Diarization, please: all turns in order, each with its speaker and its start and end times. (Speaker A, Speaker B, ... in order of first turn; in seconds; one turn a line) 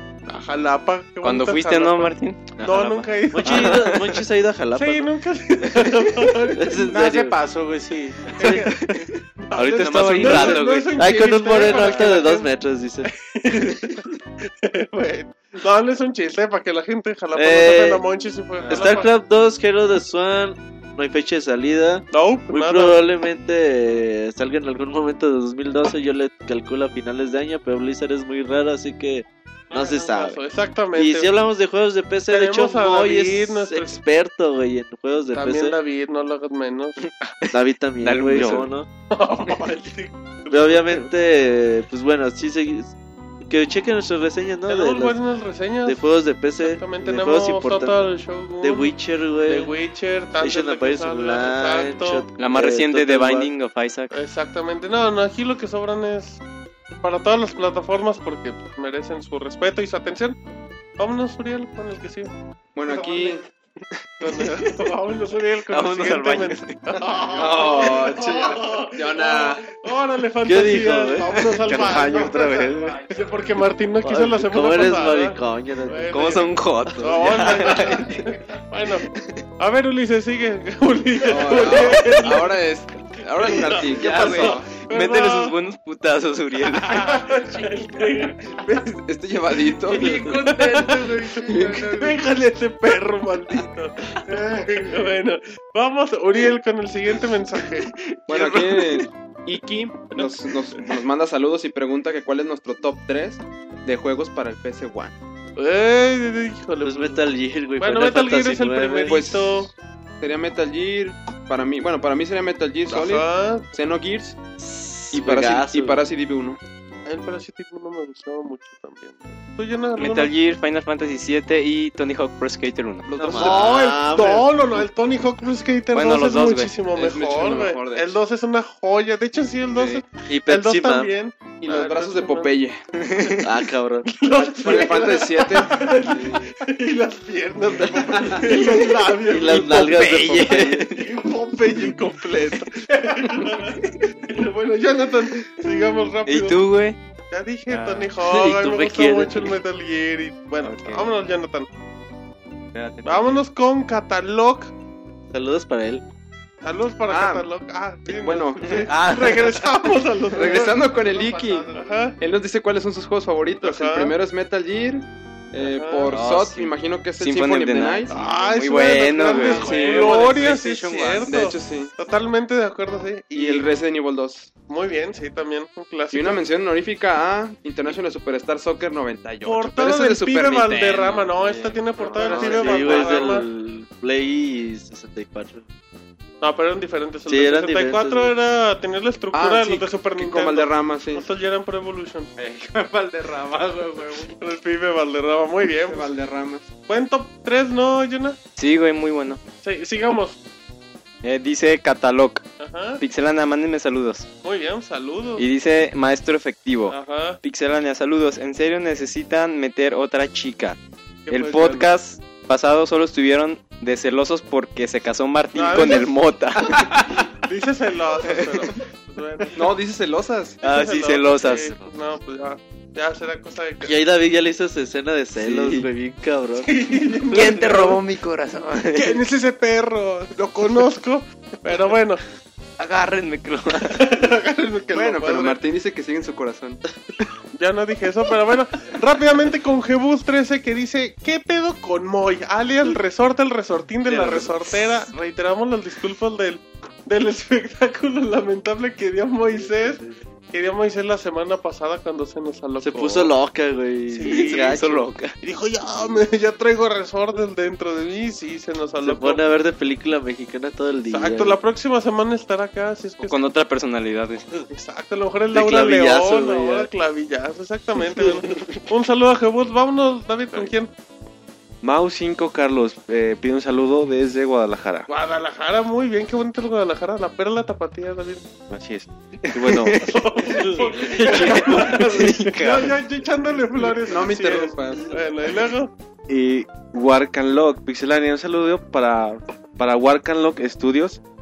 Speaker A: 0.3-4.1
Speaker B: 1.2-4.2
Speaker C: 3.3-5.1
Speaker A: 4.8-7.0
Speaker C: 6.6-7.4
Speaker D: 6.9-8.2
Speaker A: 8.4-12.5
Speaker C: 8.4-8.7
Speaker B: 8.5-11.0
Speaker C: 9.9-13.1
Speaker B: 11.6-12.2
Speaker A: 13.1-19.1
Speaker C: 17.3-18.0
Speaker B: 18.6-19.1
Speaker C: 18.7-30.4
Speaker A: 22.1-23.0
Speaker A: 29.7-31.3
Speaker C: 30.9-35.8
Speaker A: 32.3-34.0
Speaker A: 35.3-37.0
Speaker B: 37.0-38.7
Speaker C: 37.5-38.9
Speaker A: 39.1-41.1
Speaker C: 40.5-42.9
Speaker C: 43.5-45.2
Speaker A: 44.7-46.0
Speaker C: 45.9-48.1
Speaker A: 46.6-48.9
Speaker C: 48.6-49.7
Speaker A: 49.5-52.3
Speaker C: 50.4-53.5
Speaker B: 52.4-54.1
Speaker A: 54.1-56.4
Speaker A: 57.0-60.4
Speaker A: 61.0-62.3
Speaker E: 62.8-63.5
Speaker A: 62.9-63.4
Speaker A: 64.2-79.1
Speaker B: 64.4-64.9
Speaker B: 65.7-66.8
Speaker E: 67.3-69.7
Speaker C: 70.4-71.3
Speaker B: 71.3-72.1
Speaker F: 71.7-73.0
Speaker C: 74.0-76.3
Speaker B: 76.1-78.3
Speaker B: 79.1-79.4
Speaker A: 79.6-82.6
Speaker E: 81.2-84.8
Speaker A: 83.4-85.6
Speaker B: 83.9-87.2
Speaker A: 86.7-89.0
Speaker E: 89.1-90.5
Speaker A: 89.9-97.9
Speaker E: 91.4-92.1
Speaker B: 97.8-99.1
Speaker E: 98.3-105.2
Speaker A: 105.6-107.2
Speaker C: 106.8-109.2
Speaker A: 107.8-109.7
Speaker E: 109.1-109.7
Speaker E: 110.2-114.4
Speaker A: 112.9-113.7
Speaker C: 114.6-116.0
Speaker E: 115.1-116.6
Speaker A: 117.1-120.3
Speaker B: 120.0-123.1
Speaker E: 123.0-124.0
Speaker C: 123.2-124.5
Speaker A: 123.3-132.5
Speaker B: 125.9-126.8
Speaker E: 126.9-128.2
Speaker C: 130.3-131.1
Speaker E: 131.6-132.8
Speaker B: 133.0-133.5
Speaker C: 133.4-134.8
Speaker A: 134.1-146.6
Speaker E: 134.5-136.4
Speaker C: 137.9-140.9
Speaker B: 139.6-141.1
Speaker B: 143.5-144.1
Speaker B: 146.3-147.0
Speaker A: 147.3-151.7
Speaker B: 147.7-148.1
Speaker C: 148.2-149.6
Speaker B: 150.6-151.1
Speaker B: 152.7-153.4
Speaker A: 153.1-154.7
Speaker C: 155.3-156.0
Speaker A: 156.6-162.2
Speaker E: 157.1-157.5
Speaker E: 158.1-158.9
Speaker B: 158.9-159.7
Speaker E: 160.3-168.1
Speaker A: 163.6-164.2
Speaker A: 165.6-166.2
Speaker B: 166.1-171.2
Speaker A: 168.1-173.7
Speaker E: 169.3-170.5
Speaker D: 169.6-171.2
Speaker E: 171.2-171.9
Speaker E: 173.3-174.5
Speaker A: 174.7-176.4
Speaker E: 176.1-181.3
Speaker A: 179.4-183.5
Speaker B: 181.3-183.2
Speaker E: 182.0-183.0
Speaker C: 182.2-185.7
Speaker A: 186.4-192.3
Speaker C: 187.3-188.3
Speaker E: 189.3-191.3
Speaker D: 192.4-194.3
Speaker A: 194.3-196.1
Speaker E: 195.9-196.7
Speaker A: 196.9-198.4
Speaker B: 198.6-199.4
Speaker A: 199.6-200.4
Speaker B: 201.2-202.4
Speaker A: 202.6-203.0
Speaker B: 203.0-204.3
Speaker A: 204.4-205.5
Speaker B: 205.4-210.8
Speaker A: 206.9-207.4
Speaker A: 211.3-211.9
Speaker B: 211.3-217.3
Speaker A: 215.6-216.1
Speaker A: 217.4-219.8
Speaker E: 219.5-220.6
Speaker B: 220.6-221.9
Speaker A: 220.6-223.9
Speaker C: 223.8-226.7
Speaker B: 225.4-225.9
Speaker A: 226.6-228.0
Speaker B: 227.3-229.2
Speaker A: 228.9-232.2
Speaker B: 232.8-234.1
Speaker A: 233.9-235.6
Speaker E: 234.9-236.8
Speaker A: 237.6-253.3
Speaker C: 252.8-255.1
Speaker A: 254.1-254.8
Speaker B: 254.3-255.4
Speaker A: 255.4-259.4
Speaker C: 259.0-261.6
Speaker A: 261.1-263.4
Speaker B: 263.2-264.6
Speaker A: 264.7-270.9
Speaker C: 265.5-266.9
Speaker F: 271.8-275.1
Speaker A: 275.1-278.5
Speaker F: 278.7-280.1
Speaker B: 279.4-283.0
Speaker A: 280.0-285.9
Speaker E: 284.0-285.2
Speaker F: 286.3-291.2